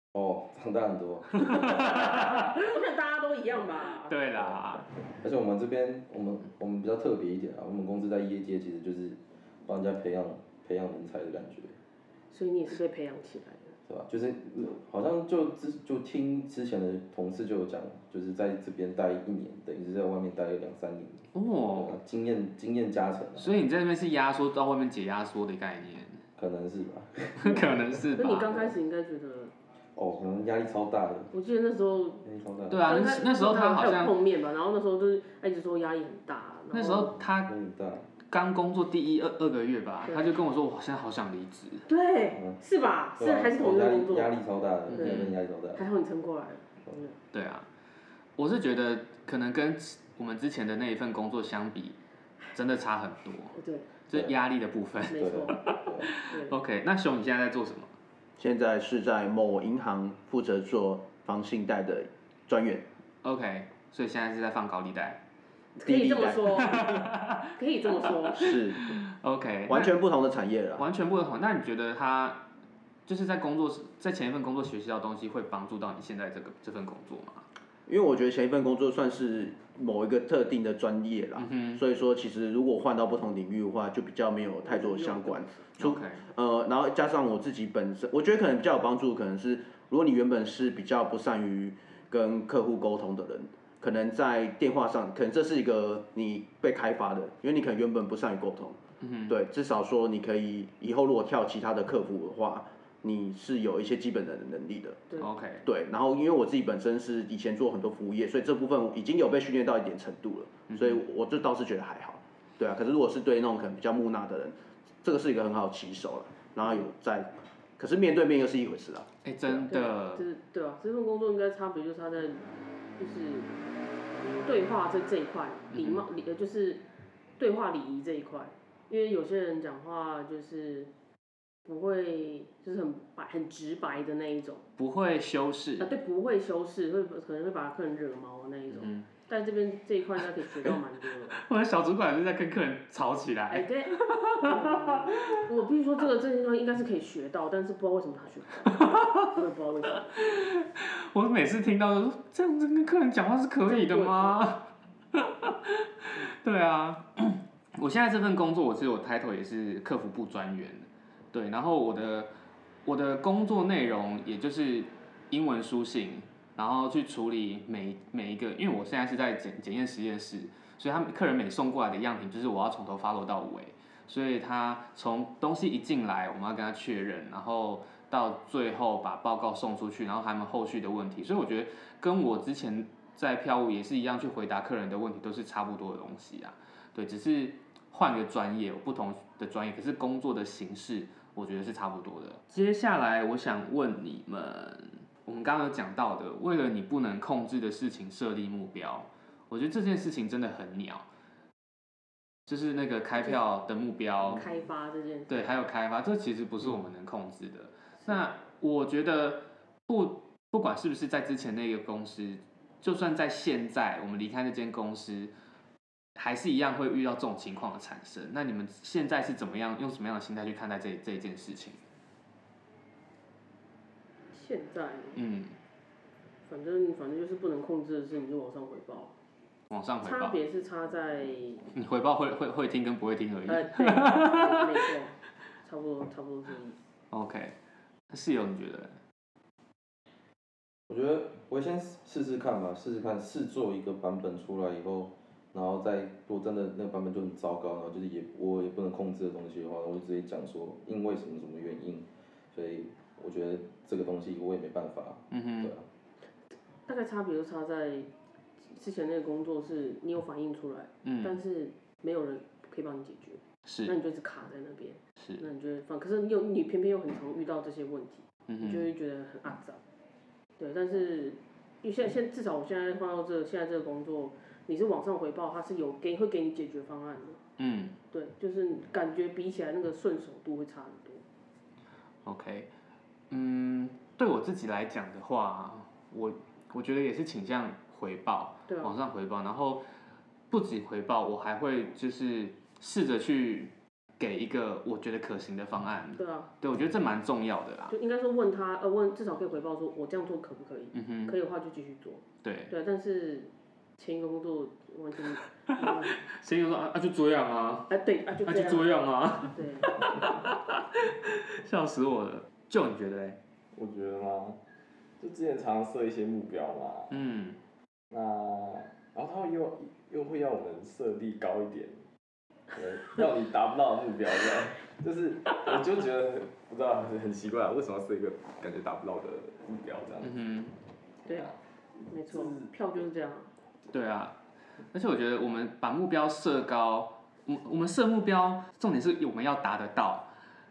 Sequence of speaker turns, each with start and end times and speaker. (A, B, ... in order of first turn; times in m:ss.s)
0:00.1-0:02.0 A
0:01.4-0:02.5 B
0:01.4-0:04.2 C
0:04.0-0:04.9 B
0:04.4-0:11.8 A
0:12.3-0:13.7 C
0:13.9-0:23.6 A
0:21.3-0:22.0 B
0:23.4-0:26.2 B
0:26.4-0:28.7 A
0:27.4-0:28.6 B
0:28.2-0:29.5 C
0:30.0-0:31.3 A
0:31.3-0:32.2 C
0:32.2-0:33.1 A
0:32.7-0:34.2 B
0:32.9-0:37.2 C
0:36.7-0:37.6 B
0:37.3-0:38.1 A
0:38.2-0:41.9 B
0:40.1-0:40.3 C
0:41.9-0:44.4 C
0:42.3-0:42.6 A
0:43.2-0:45.9 A
0:44.9-0:45.4 B
0:44.9-0:47.2 C
0:47.3-0:47.7 B
0:48.4-0:52.0 B
0:52.5-0:53.6 B
0:53.6-0:53.9 C
0:54.1-0:57.9 B
0:55.1-0:56.6 C
0:55.1-0:56.1 A
0:58.4-1:02.8 D
1:03.2-1:05.2 B
1:05.8-1:08.6 C
1:05.9-1:06.7 D
1:06.6-1:10.0 B
1:08.3-1:09.0 D
1:09.7-1:10.9 D
1:10.8-1:12.4 B
1:13.1-1:17.5 B
1:17.9-1:45.0 D
1:21.4-1:21.8 B
1:24.6-1:25.7 C
1:25.8-1:26.2 B
1:39.0-1:39.4 B
1:45.2-1:45.7 B
1:45.6-1:59.7 D
1:50.7-1:51.0 B
1:59.2-2:00.3 B
1:59.7-2:02.4 C
2:03.0-2:03.6 C
2:04.4-2:06.8 C
2:05.7-2:06.1 B
2:07.4-2:10.9 C
2:11.7-2:14.6 C
2:14.8-2:15.9 B
2:15.8-2:21.4 C
2:18.7-2:19.1 B
2:21.4-2:25.4 B
2:23.5-2:30.2 C
2:28.7-2:29.4 B
2:30.0-2:42.3 B
2:33.6-2:34.4 C
2:42.8-3:21.0 B
3:22.5-3:24.4 B
3:23.2-3:23.4 C
3:24.2-3:25.5 C
3:25.3-3:35.3 B
3:28.0-3:28.3 C
3:36.2-3:41.8 B
3:44.3-3:45.2 C
3:45.2-3:45.5 B
3:46.5-3:49.1 C
3:49.7-3:50.4 B
3:50.0-3:51.7 C
3:51.7-3:54.8 B
3:53.5-3:56.8 C
3:57.1-3:57.6 B
3:58.1-3:59.0 B
4:00.9-4:15.9 A
4:15.3-4:15.7 B
4:16.9-4:18.1 C
4:18.7-4:29.8 C
4:21.0-4:21.4 B
4:23.7-4:23.9 B
4:28.5-4:28.9 B
4:30.6-4:37.4 C
4:37.6-4:38.0 B
4:38.1-4:41.2 C
4:42.2-4:42.7 B
4:43.3-4:49.9 B
4:48.7-4:48.9 C
4:50.5-4:57.9 B
4:56.2-4:56.5 C
4:57.9-5:06.2 C
5:00.9-5:01.4 B
5:02.4-5:02.7 B
5:05.7-5:07.9 B
5:07.9-5:09.9 C
5:08.4-5:13.4 B
5:13.8-5:14.6 E
5:15.2-5:17.2 E
5:17.1-5:17.6 B
5:18.1-5:21.9 E
5:22.7-5:30.4 E
5:30.2-5:30.8 B
5:31.3-5:31.6 E
5:32.1-5:33.5 C
5:32.3-5:32.7 E
5:33.9-5:34.4 B
5:34.9-5:40.3 B